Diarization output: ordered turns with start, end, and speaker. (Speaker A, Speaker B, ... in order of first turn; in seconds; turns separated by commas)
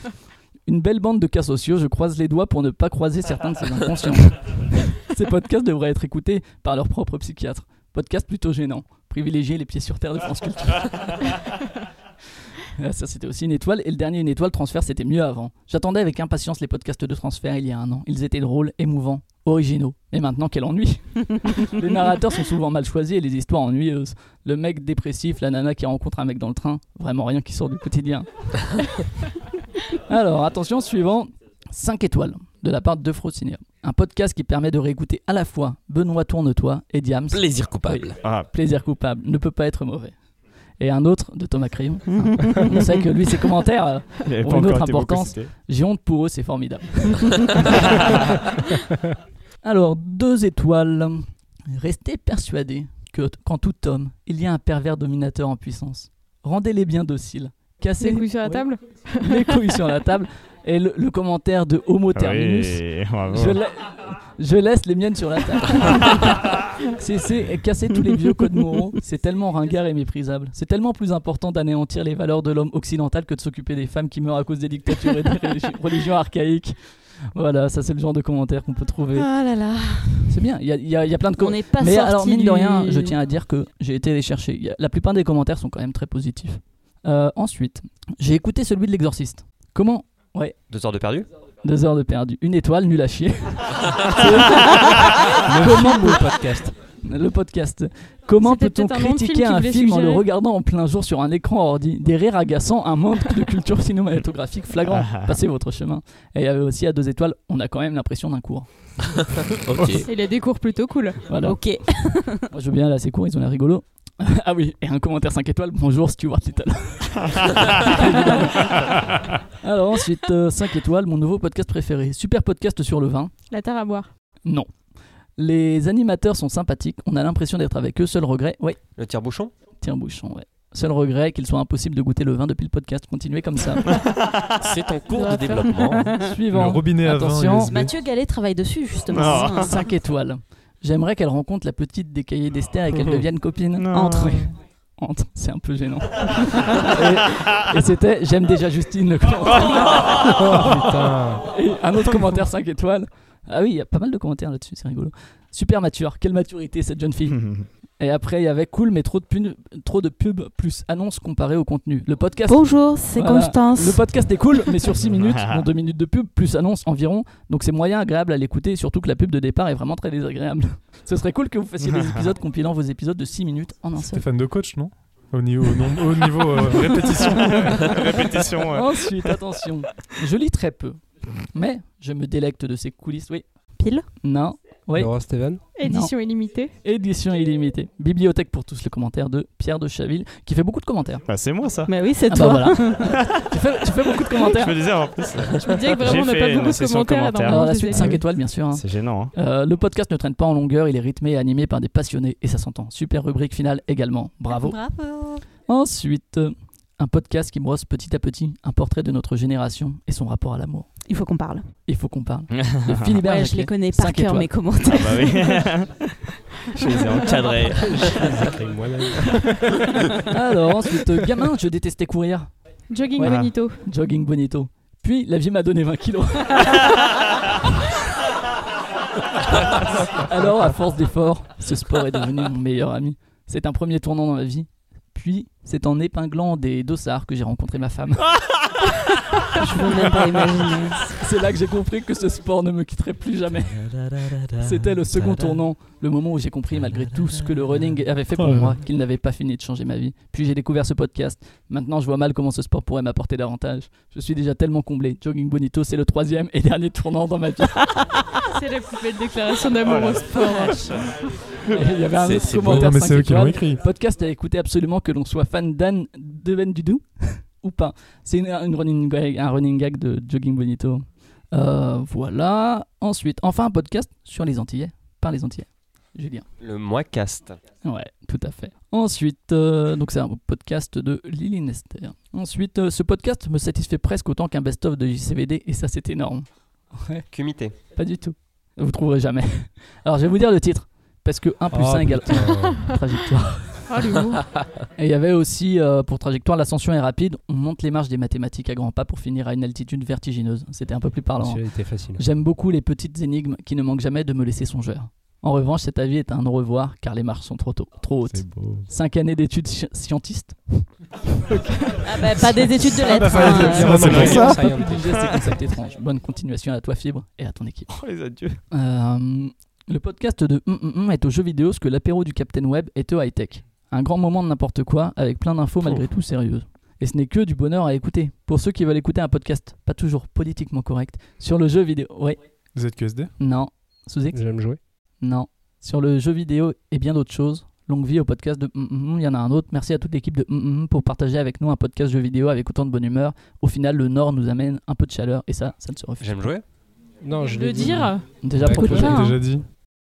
Speaker A: 0.7-11.3, Speaker A: 12.7-28.8, Speaker A: 29.9-40.1, Speaker B: 37.3-38.2, Speaker C: 38.2-38.5, Speaker A: 40.8-48.2, Speaker D: 42.1-42.9, Speaker C: 44.2-45.5, Speaker C: 47.8-48.0, Speaker A: 49.6-76.8, Speaker E: 58.0-59.8, Speaker C: 62.1-63.6, Speaker A: 77.3-79.3, Speaker D: 79.2-80.4, Speaker A: 80.3-90.6, Speaker D: 81.4-83.2, Speaker F: 90.7-91.3, Speaker A: 91.6-96.2, Speaker G: 95.4-96.8, Speaker A: 97.0-108.7, Speaker E: 98.4-100.2, Speaker C: 104.9-105.2, Speaker B: 109.6-110.1, Speaker E: 110.0-111.3, Speaker A: 111.3-111.8, Speaker D: 111.4-112.5, Speaker A: 112.4-123.3, Speaker E: 123.5-124.1, Speaker A: 125.4-128.8, Speaker F: 129.0-129.5, Speaker A: 129.8-134.0, Speaker C: 133.9-134.5, Speaker B: 134.6-136.1, Speaker E: 135.1-136.1, Speaker A: 136.1-137.8, Speaker H: 136.5-137.9, Speaker D: 137.6-139.9, Speaker C: 139.1-139.8, Speaker A: 139.2-150.7, Speaker C: 143.8-144.5, Speaker D: 143.9-144.5, Speaker G: 150.3-151.4, Speaker A: 151.4-174.3, Speaker C: 157.4-157.7, Speaker D: 162.5-164.1, Speaker C: 165.1-165.6, Speaker H: 174.0-178.4, Speaker C: 177.2-179.4, Speaker A: 177.3-178.1, Speaker A: 178.7-181.0, Speaker A: 181.5-183.4, Speaker D: 183.8-184.1, Speaker A: 184.2-191.2, Speaker G: 184.9-185.6, Speaker E: 185.8-186.7, Speaker C: 191.3-191.9, Speaker D: 191.9-193.2, Speaker A: 192.3-194.8, Speaker C: 193.0-193.3, Speaker C: 194.3-199.3, Speaker E: 195.6-198.2, Speaker A: 197.5-204.8, Speaker D: 204.5-205.4, Speaker A: 205.7-210.9, Speaker D: 211.1-211.7, Speaker A: 211.9-214.5, Speaker C: 212.5-213.2, Speaker D: 213.2-215.7, Speaker C: 214.8-218.3, Speaker D: 217.2-217.7, Speaker G: 217.7-220.0, Speaker A: 220.3-222.5, Speaker E: 222.9-223.8, Speaker A: 223.2-226.9, Speaker C: 223.2-223.5, Speaker A: 229.6-238.3, Speaker D: 239.6-241.2, Speaker A: 241.2-244.0, Speaker C: 243.7-245.6, Speaker A: 244.6-257.8, Speaker C: 246.9-247.4, Speaker H: 248.4-248.8, Speaker E: 258.5-261.1, Speaker C: 259.9-260.8, Speaker A: 261.7-276.5, Speaker B: 262.1-263.0, Speaker H: 262.6-263.8, Speaker F: 276.6-277.6, Speaker A: 277.8-287.3, Speaker F: 287.3-287.8, Speaker A: 287.9-293.9, Speaker G: 291.7-292.8, Speaker E: 293.9-294.5, Speaker A: 294.9-317.9, Speaker G: 301.4-302.2, Speaker C: 308.3-308.9, Speaker D: 312.0-314.4, Speaker H: 313.0-314.7, Speaker G: 313.4-315.5, Speaker C: 313.9-315.2, Speaker C: 317.9-318.6, Speaker A: 318.7-332.4, Speaker H: 332.7-333.3, Speaker A: 333.4-334.4, Speaker G: 334.3-334.8, Speaker A: 335.2-346.5, Speaker F: 346.2-346.6, Speaker G: 347.2-349.2, Speaker E: 347.4-348.3, Speaker A: 348.4-349.4, Speaker H: 348.6-349.7, Speaker D: 348.8-349.4